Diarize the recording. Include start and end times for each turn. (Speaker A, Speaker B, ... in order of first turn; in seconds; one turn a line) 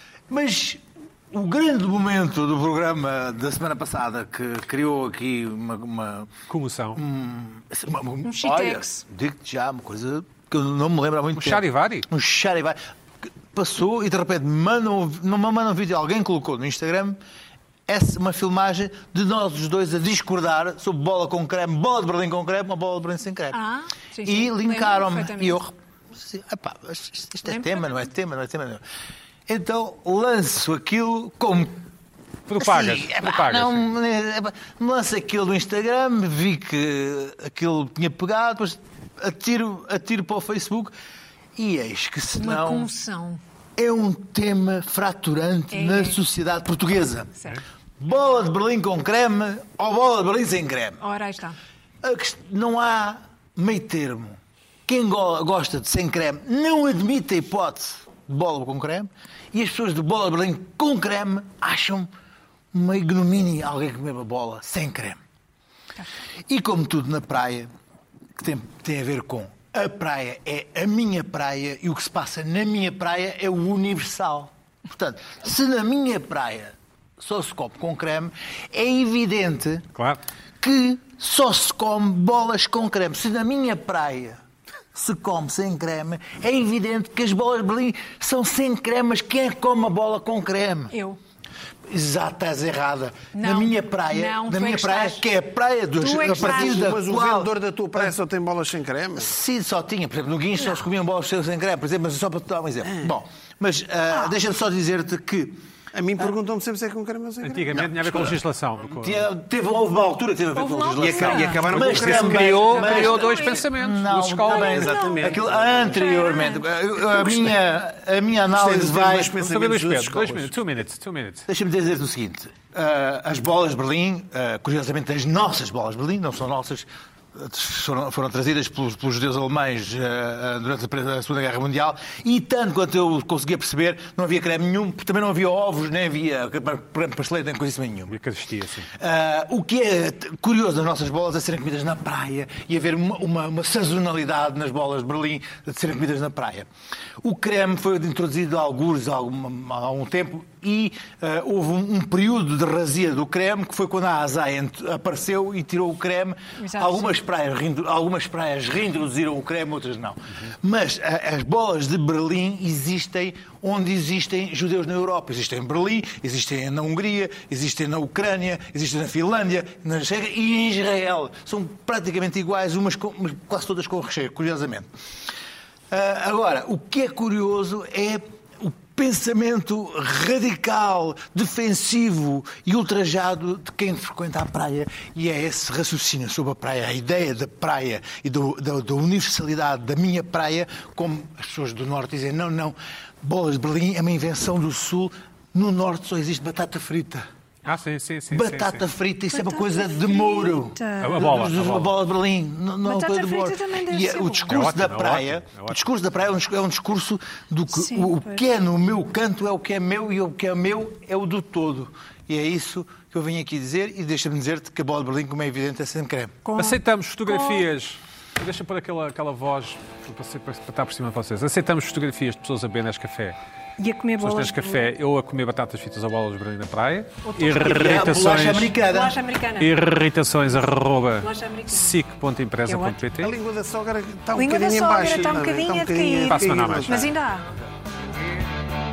Speaker A: 0.3-6.3
Speaker B: 6.5-7.0
Speaker A: 7.0-17.2
Speaker C: 8.2-9.1
Speaker B: 11.3-12.1
Speaker A: 17.9-23.6
Speaker C: 23.5-25.6
Speaker A: 24.2-28.8
Speaker C: 27.5-27.9
Speaker A: 29.5-31.8
Speaker B: 32.5-33.8
Speaker A: 32.6-40.9
Speaker A: 41.6-42.9
Speaker C: 42.4-43.4
Speaker A: 43.8-47.4
Speaker C: 45.7-46.2
Speaker A: 48.0-51.0
Speaker C: 51.0-51.6
Speaker A: 52.0-62.1
Speaker A: 62.7-65.2
Speaker A: 66.5-67.7
Speaker A: 68.4-79.8
Speaker B: 80.0-80.2
Speaker A: 80.6-84.4
Speaker A: 84.9-90.9
Speaker C: 90.9-91.2
Speaker A: 91.9-98.1
Speaker C: 93.3-95.2
Speaker C: 96.0-96.9
Speaker D: 96.3-99.3
Speaker A: 99.2-105.6
Speaker C: 100.5-100.9
Speaker D: 105.9-108.2
Speaker B: 107.4-109.2
Speaker A: 108.0-108.3
Speaker A: 108.9-119.4
Speaker C: 110.5-113.7
Speaker D: 111.0-113.2
Speaker B: 112.7-114.8
Speaker C: 114.4-117.3
Speaker D: 114.5-116.0
Speaker D: 118.5-120.5
Speaker B: 119.4-121.5
Speaker A: 121.5-138.2
Speaker B: 138.1-138.9
Speaker A: 139.0-146.7
Speaker A: 147.2-174.9
Speaker C: 156.6-157.2
Speaker A: 175.9-197.3
Speaker B: 197.7-198.8
Speaker A: 198.3-216.3
Speaker C: 199.3-201.5
Speaker B: 201.0-201.9
Speaker C: 202.8-204.7
Speaker B: 204.5-205.8
Speaker C: 207.7-208.4
Speaker C: 216.4-217.7
Speaker B: 216.6-223.4
Speaker C: 223.8-224.8
Speaker B: 224.2-228.7
Speaker C: 227.2-229.7
Speaker A: 227.7-229.2
Speaker B: 229.6-233.3
Speaker C: 231.2-232.0
Speaker C: 232.7-233.0
Speaker D: 233.2-237.1
Speaker C: 234.3-237.5
Speaker B: 236.3-237.1